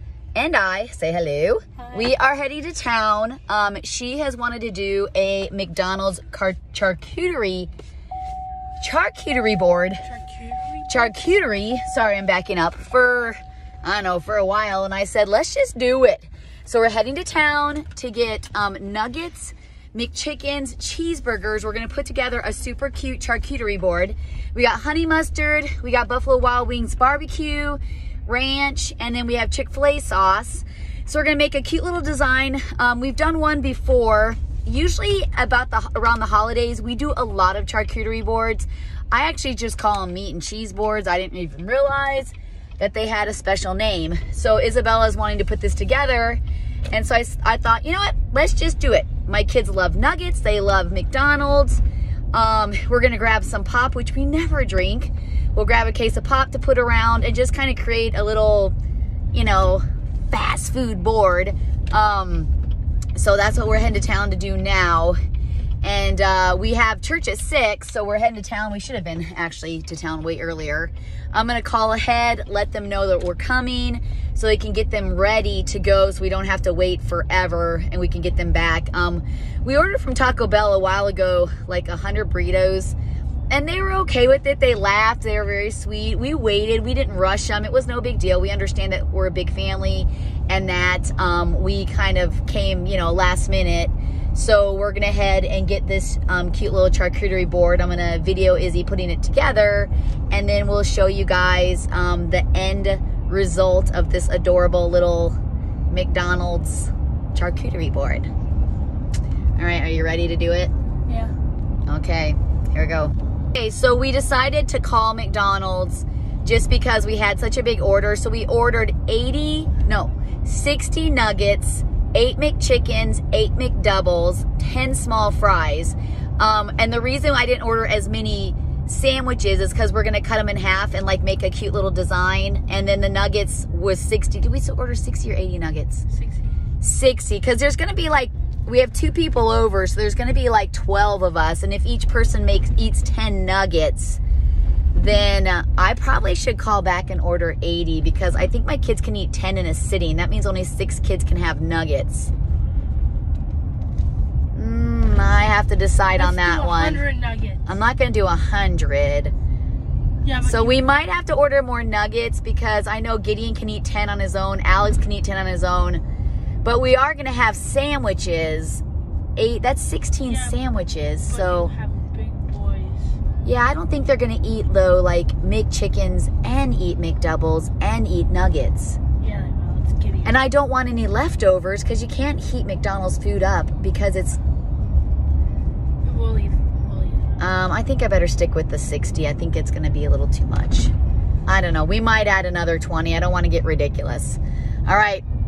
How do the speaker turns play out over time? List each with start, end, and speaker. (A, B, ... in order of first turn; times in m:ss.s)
0:00.4-0:07.7 A
0:01.8-0:02.1 B
0:08.8-0:10.0 A
0:10.0-0:11.1 B
0:10.9-0:51.8 A
0:52.3-0:58.7 A
0:59.3-1:02.5 A
1:03.2-1:05.2 A
1:05.8-1:23.0 A
1:23.5-1:45.4 A
1:45.9-1:48.3 A
1:49.6-1:50.7 A
1:51.1-1:51.3 B
1:51.9-2:16.0 A
2:16.1-2:16.6 B
2:16.8-2:24.2 A
2:24.9-2:32.3 A
2:34.5-2:37.0 A
2:36.1-2:37.8 B
2:37.7-2:39.3 A
2:40.2-2:40.8 B
2:40.4-2:46.0 A
2:46.6-2:48.8 A
2:49.4-2:51.7 A
2:50.2-2:50.6 B
2:51.2-2:53.2 B
2:53.4-2:59.0 A
2:59.2-3:00.4 B
3:00.2-3:04.4 A
3:06.0-3:07.4 B
3:07.4-3:10.9 A
3:11.5-3:15.2 A